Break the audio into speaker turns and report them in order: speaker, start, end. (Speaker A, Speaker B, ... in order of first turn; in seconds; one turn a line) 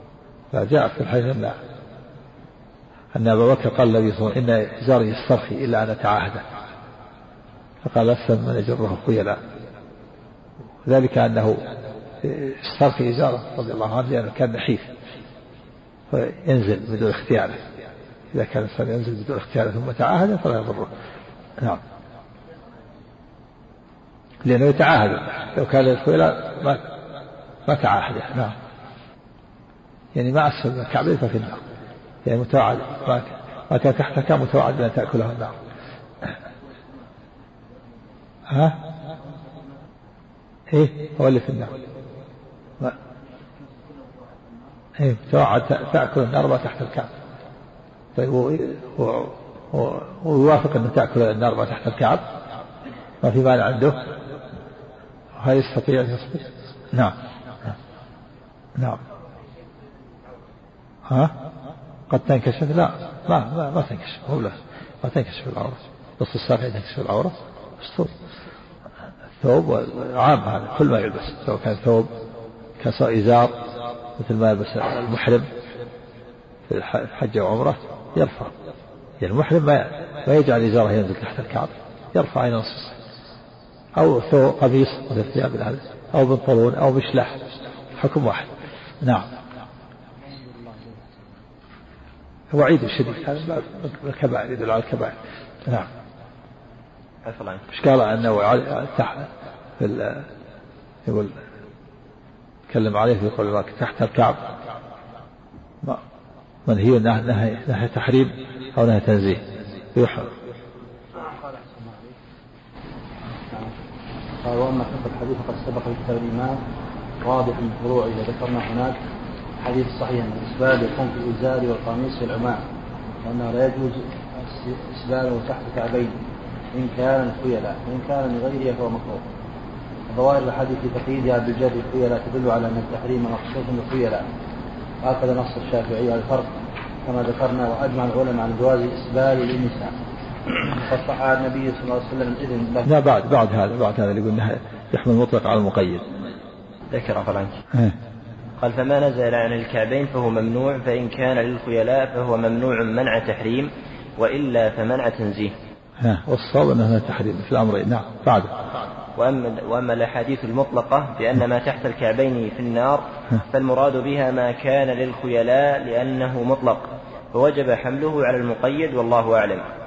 Speaker A: 0.5-1.6
Speaker A: 3.1-6.4
Speaker A: 7.8-9.4
Speaker A: 10.8-11.6
Speaker A: 12.2-14.9
Speaker A: 16.1-17.6
Speaker A: 18.3-20.9
Speaker A: 24.4-26.8
Speaker A: 27.7-28.6
Speaker A: 30.1-31.6
Speaker A: 32.2-35.5
Speaker A: 38.5-38.8
Speaker A: 40.7-41.7
Speaker A: 45.0-47.1
Speaker A: 48.1-52.2
Speaker A: 53.2-54.0
Speaker A: 55.4-57.7
Speaker A: 58.8-59.0
Speaker A: 61.1-61.4
Speaker A: 62.1-68.1
Speaker A: 69.4-72.1
Speaker A: 72.8-73.6
Speaker A: 74.2-75.5
Speaker A: 76.7-78.5
Speaker A: 79.2-83.0
Speaker A: 84.0-87.4
Speaker A: 88.0-88.5
Speaker A: 89.0-89.3
Speaker B: 90.4-91.0
Speaker A: 92.5-95.9
Speaker C: 97.2-97.6
Speaker A: 97.7-99.3
Speaker A: 99.8-100.3
Speaker A: 101.1-101.4
Speaker A: 102.7-104.4
Speaker A: 106.7-109.4
Speaker A: 110.0-110.3
Speaker B: 111.2-112.2
Speaker B: 113.5-113.8
Speaker B: 114.4-116.6
Speaker B: 117.2-119.0
Speaker B: 119.6-122.7
Speaker B: 123.2-126.2
Speaker B: 126.7-129.2
Speaker B: 130.1-134.3
Speaker B: 135.0-139.9
Speaker B: 140.6-142.9
Speaker A: 142.8-146.0
Speaker C: 146.9-147.6
Speaker C: 148.6-155.5
Speaker A: 156.0-158.5
Speaker C: 159.2-169.7